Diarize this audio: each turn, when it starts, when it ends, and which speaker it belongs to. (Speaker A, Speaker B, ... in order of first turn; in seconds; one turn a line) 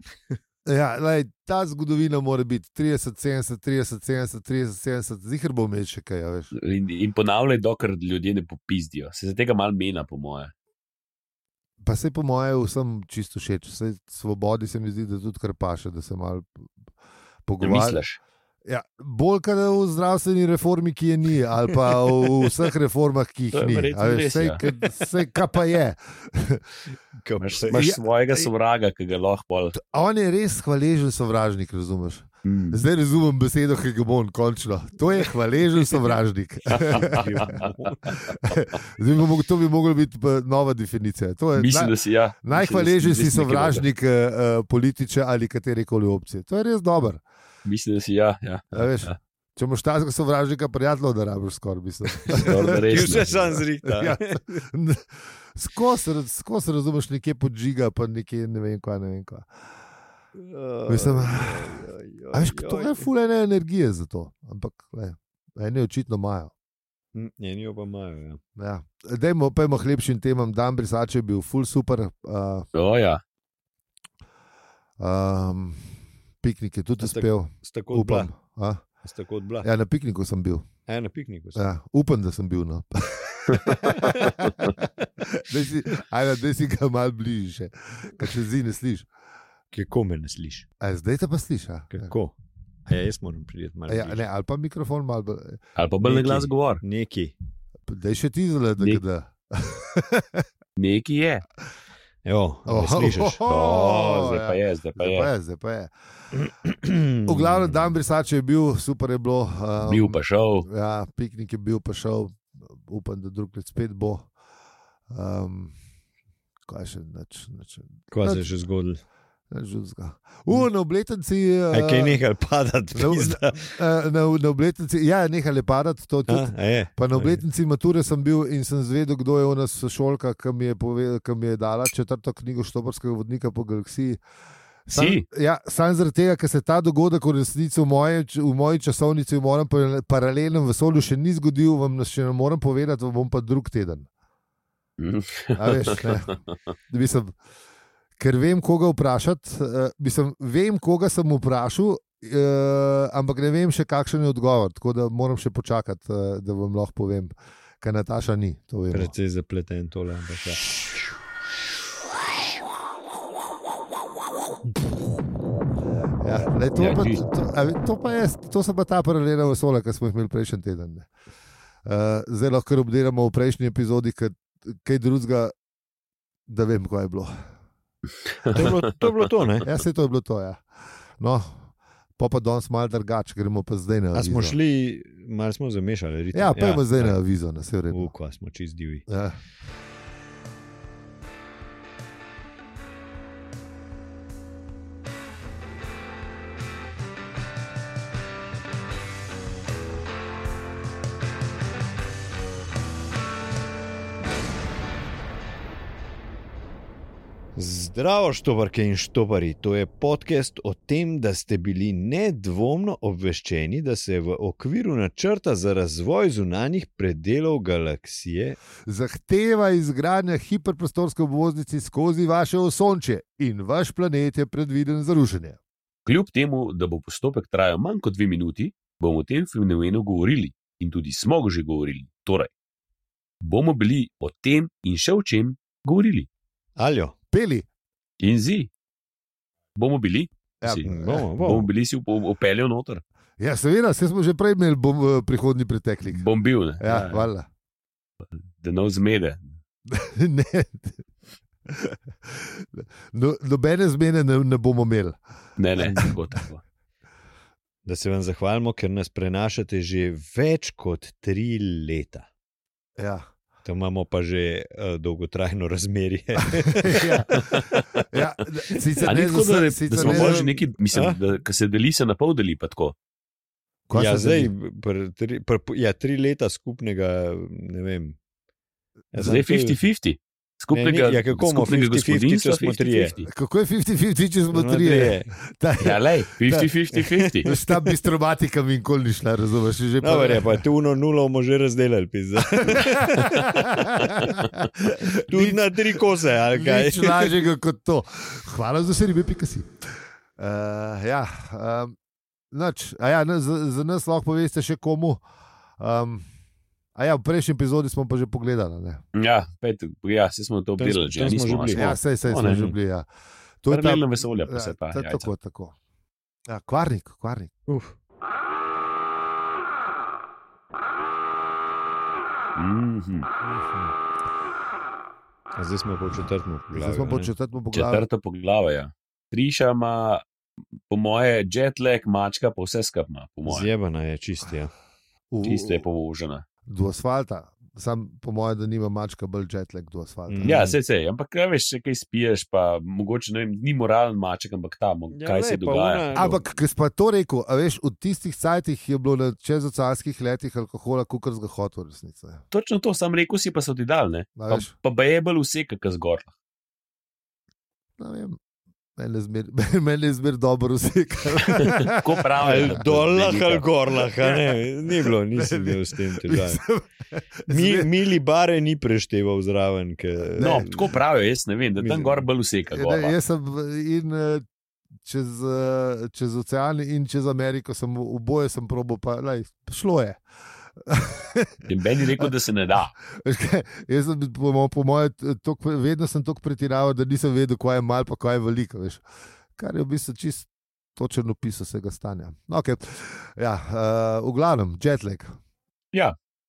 Speaker A: 0.7-6.5
Speaker B: 6.5-10.5
Speaker A: 11.8-16.7
Speaker A: 17.5-18.0
Speaker B: 17.6-18.2
Speaker A: 18.6-26.6
Speaker B: 23.5-24.6
Speaker C: 27.2-27.8
Speaker B: 27.4-29.8
Speaker A: 27.7-28.5
Speaker A: 29.7-47.2
Speaker B: 32.4-32.8
Speaker B: 36.7-38.3
Speaker C: 36.9-38.2
Speaker B: 41.5-43.8
Speaker B: 47.6-49.1
Speaker A: 48.7-53.3
Speaker C: 52.2-54.6
Speaker B: 52.3-53.6
Speaker A: 53.8-59.5
Speaker C: 60.3-63.1
Speaker A: 60.9-61.8
Speaker A: 62.3-66.5
Speaker C: 67.1-68.4
Speaker A: 68.5-72.7
Speaker B: 72.7-73.2
Speaker A: 75.0-75.9
Speaker A: 76.4-78.8
Speaker C: 77.0-78.3
Speaker C: 79.0-79.7
Speaker A: 79.6-80.7
Speaker C: 80.9-81.6
Speaker A: 81.5-89.1
Speaker B: 83.5-83.8
Speaker C: 83.8-84.3
Speaker C: 89.7-90.7
Speaker A: 90.8-92.1
Speaker C: 91.9-92.3
Speaker C: 92.9-94.2
Speaker A: 93.9-95.6
Speaker B: 95.8-96.8
Speaker C: 96.0-97.3
Speaker A: 97.9-100.5
Speaker B: 100.8-101.4
Speaker C: 102.2-103.4
Speaker A: 102.7-105.9
Speaker B: 103.5-105.3
Speaker C: 106.3-107.8
Speaker A: 107.2-114.3
Speaker B: 109.8-110.7
Speaker A: 115.1-115.7
Speaker A: 116.7-118.5
Speaker C: 118.1-119.0
Speaker A: 119.5-122.2
Speaker C: 121.7-123.8
Speaker A: 122.9-134.2
Speaker C: 126.3-127.4
Speaker A: 134.9-144.1
Speaker B: 134.9-135.2
Speaker B: 145.0-146.2
Speaker A: 145.5-146.4
Speaker A: 146.9-147.3
Speaker A: 148.2-159.1
Speaker C: 158.9-160.7
Speaker A: 166.2-171.1
Speaker B: 166.8-167.2
Speaker A: 171.8-175.5
Speaker A: 176.5-177.3
Speaker B: 178.4-178.7
Speaker C: 178.5-179.7
Speaker A: 179.6-180.6
Speaker A: 181.2-184.6
Speaker C: 184.1-187.2
Speaker A: 186.3-188.1
Speaker C: 187.9-189.1
Speaker A: 189.1-189.4
Speaker C: 207.6-218.6
Speaker A: 218.8-225.6
Speaker B: 226.1-232.5
Speaker B: 233.4-236.3
Speaker C: 236.8-237.1
Speaker A: 237.3-237.7
Speaker B: 238.2-238.7
Speaker B: 239.8-243.0
Speaker A: 240.6-241.2
Speaker C: 240.8-241.7
Speaker A: 243.4-246.2
Speaker B: 246.1-247.3
Speaker A: 246.8-247.5
Speaker B: 248.6-249.5
Speaker A: 249.9-251.0
Speaker A: 251.7-255.2
Speaker B: 255.6-256.6
Speaker A: 255.8-256.1
Speaker C: 257.9-262.3
Speaker A: 263.0-263.3
Speaker C: 263.6-267.1
Speaker A: 266.7-270.6
Speaker B: 267.5-268.0
Speaker B: 269.0-272.9
Speaker C: 270.0-271.2
Speaker A: 273.9-274.5
Speaker C: 273.9-278.2
Speaker C: 279.1-279.8
Speaker B: 279.2-283.3
Speaker C: 280.7-283.1
Speaker A: 283.2-286.7
Speaker C: 284.5-285.3
Speaker B: 285.8-287.5
Speaker C: 287.0-287.9
Speaker A: 287.4-290.6
Speaker C: 290.0-297.4
Speaker A: 292.6-299.7
Speaker A: 300.4-301.9
Speaker A: 302.5-305.2
Speaker A: 305.8-306.2
Speaker A: 306.9-309.0
Speaker B: 309.1-312.7
Speaker C: 310.8-312.7
Speaker A: 311.7-313.1
Speaker A: 313.6-315.8
Speaker B: 313.7-315.3
Speaker A: 316.5-317.5
Speaker C: 317.7-317.9
Speaker B: 322.6-323.3
Speaker C: 323.4-323.9
Speaker C: 325.6-327.3
Speaker A: 326.7-328.0
Speaker B: 327.7-330.2
Speaker B: 330.9-333.7
Speaker C: 333.4-334.7
Speaker A: 335.3-335.8
Speaker B: 335.4-336.4
Speaker A: 336.6-340.6
Speaker C: 340.3-340.8
Speaker B: 340.4-346.3
Speaker C: 345.1-346.4
Speaker A: 346.1-352.4
Speaker B: 352.5-356.3
Speaker A: 354.4-354.7
Speaker A: 358.0-358.4
Speaker A: 359.0-362.8
Speaker B: 361.5-363.7
Speaker C: 362.4-366.6
Speaker A: 364.2-364.5
Speaker A: 365.1-367.9
Speaker C: 367.5-370.9
Speaker B: 370.4-373.1
Speaker C: 371.8-372.3
Speaker A: 372.7-374.4
Speaker A: 375.0-380.2
Speaker A: 380.8-382.3
Speaker B: 381.7-382.9
Speaker A: 383.1-389.0
Speaker A: 389.6-395.3